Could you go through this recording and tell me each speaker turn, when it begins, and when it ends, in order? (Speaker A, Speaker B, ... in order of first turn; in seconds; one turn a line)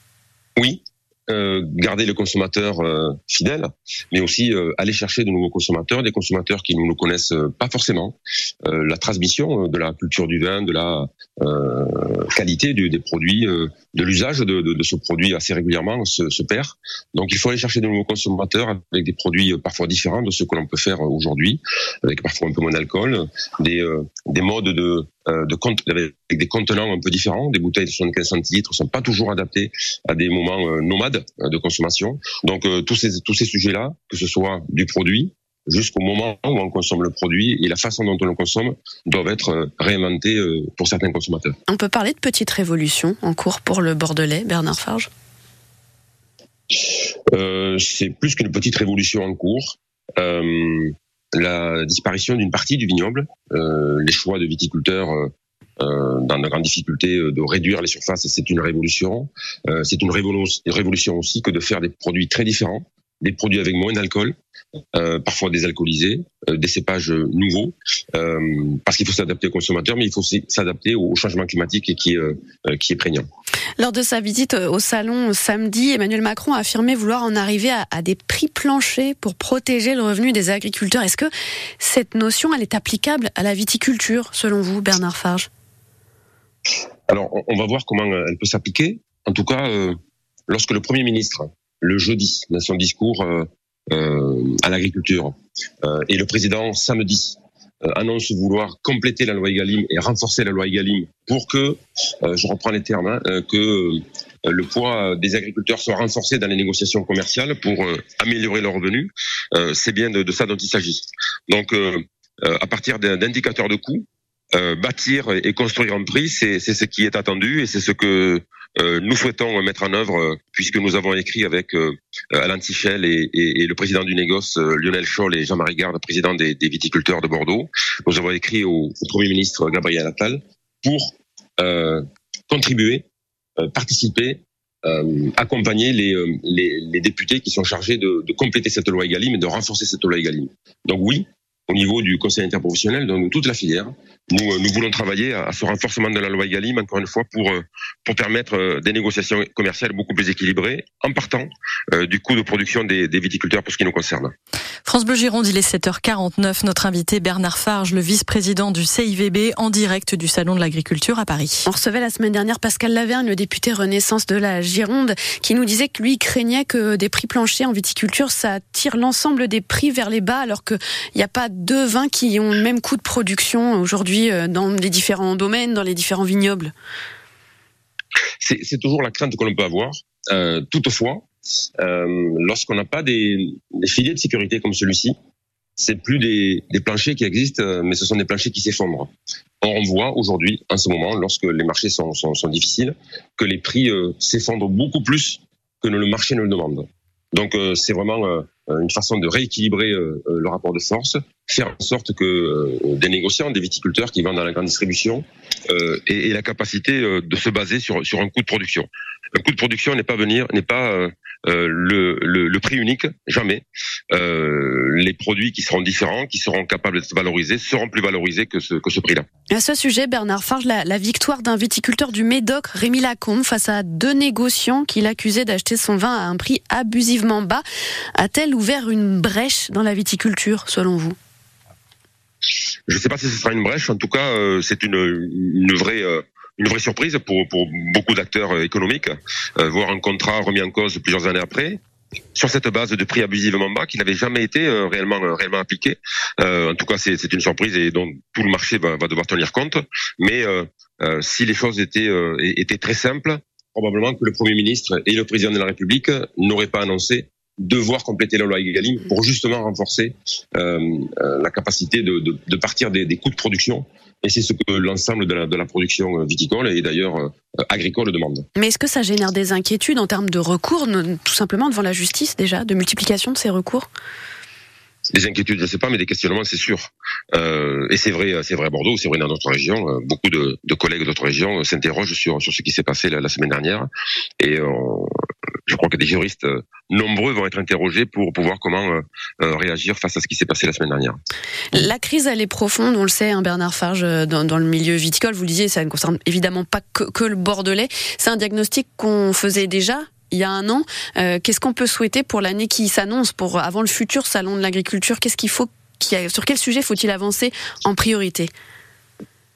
Speaker A: 0.6-41.5
Speaker B: 41.7-45.1
Speaker A: 47.3-64.3
Speaker A: 64.9-73.3
Speaker B: 73.8-85.5
Speaker A: 87.1-90.0
Speaker A: 90.5-133.0
Speaker A: 133.6-154.3
Speaker C: 154.8-161.6
Speaker B: 161.7-176.7
Speaker A: 178.4-181.2
Speaker A: 181.8-185.1
Speaker A: 185.8-219.2
Speaker B: 219.5-227.6
Speaker B: 228.1-231.2
Speaker A: 232.9-241.8
Speaker A: 242.3-268.4
Speaker B: 268.5-273.9
Speaker A: 275.1-283.9
Speaker A: 284.4-285.2
Speaker A: 285.7-291.2
Speaker B: 291.7-308.5